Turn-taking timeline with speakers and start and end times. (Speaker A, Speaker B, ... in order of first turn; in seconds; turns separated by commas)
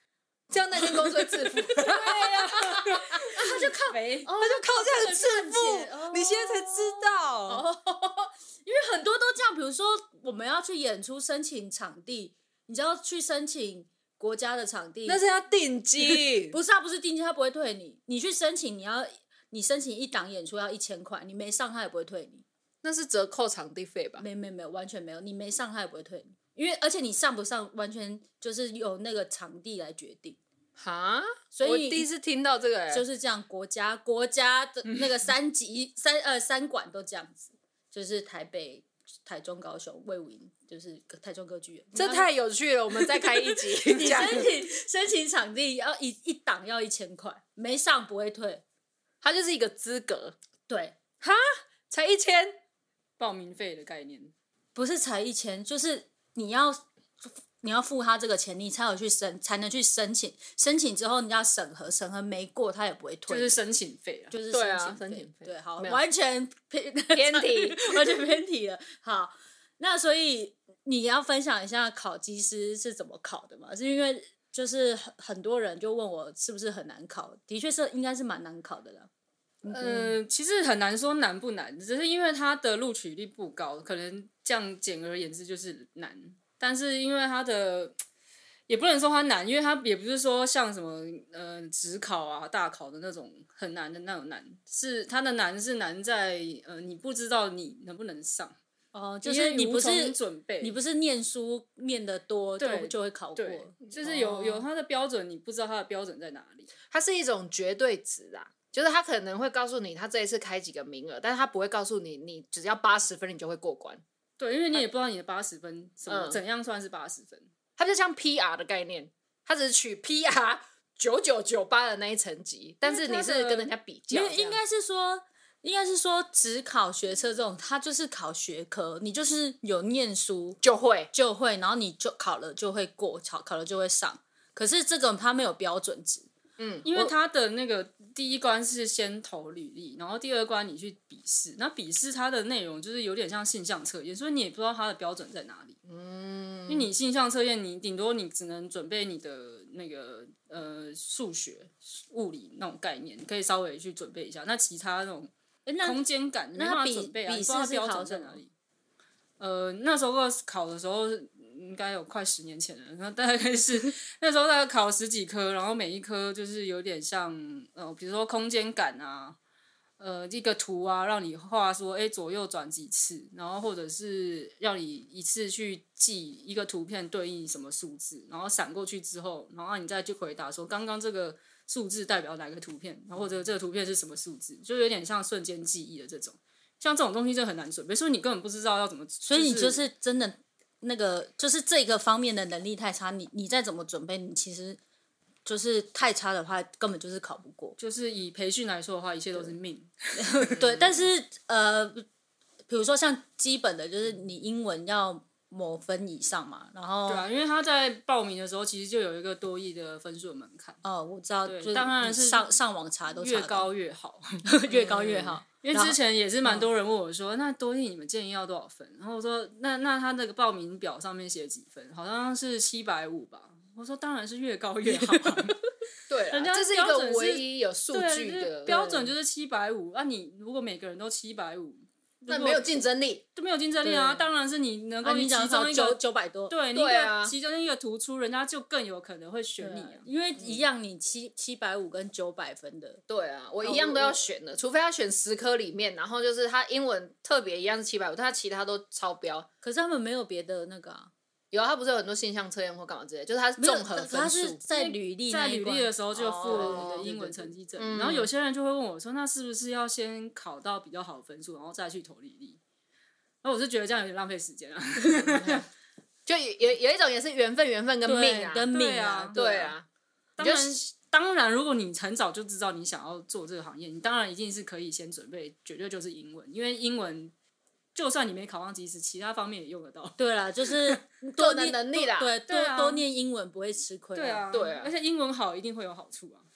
Speaker A: 0.5-3.5, Speaker B: 0.8-4.3, Speaker C: 3.3-15.2, Speaker A: 4.4-7.7, Speaker A: 15.1-16.6, Speaker C: 16.5-22.4, Speaker A: 22.8-24.2, Speaker C: 24.2-30.4, Speaker A: 30.8-33.0, Speaker C: 31.5-32.1, Speaker C: 32.9-42.3, Speaker A: 42.0-44.5, Speaker C: 43.0-48.6, Speaker A: 49.2-50.4, Speaker C: 50.7-51.0, Speaker A: 51.2-52.6, Speaker B: 53.2-54.3, Speaker C: 54.8-63.6, Speaker B: 63.3-64.3, Speaker C: 64.3-79.1, Speaker A: 64.5-66.0, Speaker A: 67.2-68.2, Speaker C: 79.6-80.2, Speaker B: 79.7-88.0, Speaker B: 88.7-98.6, Speaker C: 98.9-104.1, Speaker B: 99.2-100.8, Speaker B: 102.6-106.7, Speaker A: 104.0-104.6, Speaker A: 106.9-114.0, Speaker B: 114.4-117.5, Speaker A: 116.1-116.4, Speaker A: 117.8-124.6, Speaker B: 122.8-123.7, Speaker C: 124.1-130.6, Speaker A: 130.6-131.1, Speaker C: 131.1-136.3, Speaker A: 136.6-136.9, Speaker B: 136.8-145.8, Speaker A: 145.8-146.9, Speaker B: 146.7-155.3, Speaker C: 155.7-156.0, Speaker B: 155.8-158.5, Speaker C: 156.6-158.4, Speaker B: 159.4-169.4, Speaker B: 170.0-189.8, Speaker C: 189.2-194.8, Speaker C: 195.4-197.8, Speaker B: 197.8-200.5, Speaker C: 200.2-202.1, Speaker A: 200.6-201.1, Speaker C: 202.7-207.3, Speaker B: 207.1-210.8, Speaker C: 210.8-213.7, Speaker B: 211.4-212.5, Speaker B: 213.1-225.6, Speaker C: 214.5-216.7, Speaker C: 224.9-225.5, Speaker A: 226.1-229.0, Speaker B: 226.3-232.8, Speaker A: 232.3-233.2, Speaker B: 233.3-240.1, Speaker C: 233.8-234.3, Speaker C: 235.0-236.6, Speaker A: 236.7-237.3, Speaker C: 239.6-243.0, Speaker A: 240.4-240.7, Speaker A: 243.1-249.5, Speaker C: 243.6-244.2, Speaker C: 249.6-251.1, Speaker A: 251.5-254.6, Speaker C: 253.6-257.5, Speaker B: 254.7-262.6, Speaker A: 256.2-257.1, Speaker A: 257.8-258.3, Speaker B: 263.4-265.7, Speaker A: 265.0-265.7, Speaker A: 266.3-268.7, Speaker C: 268.1-269.7, Speaker B: 268.7-269.7, Speaker A: 269.3-269.9, Speaker B: 270.4-277.3, Speaker A: 270.4-270.8, Speaker B: 277.9-281.0, Speaker C: 280.2-284.4, Speaker A: 281.4-282.3, Speaker B: 282.5-283.1, Speaker B: 284.1-286.5, Speaker A: 284.5-284.9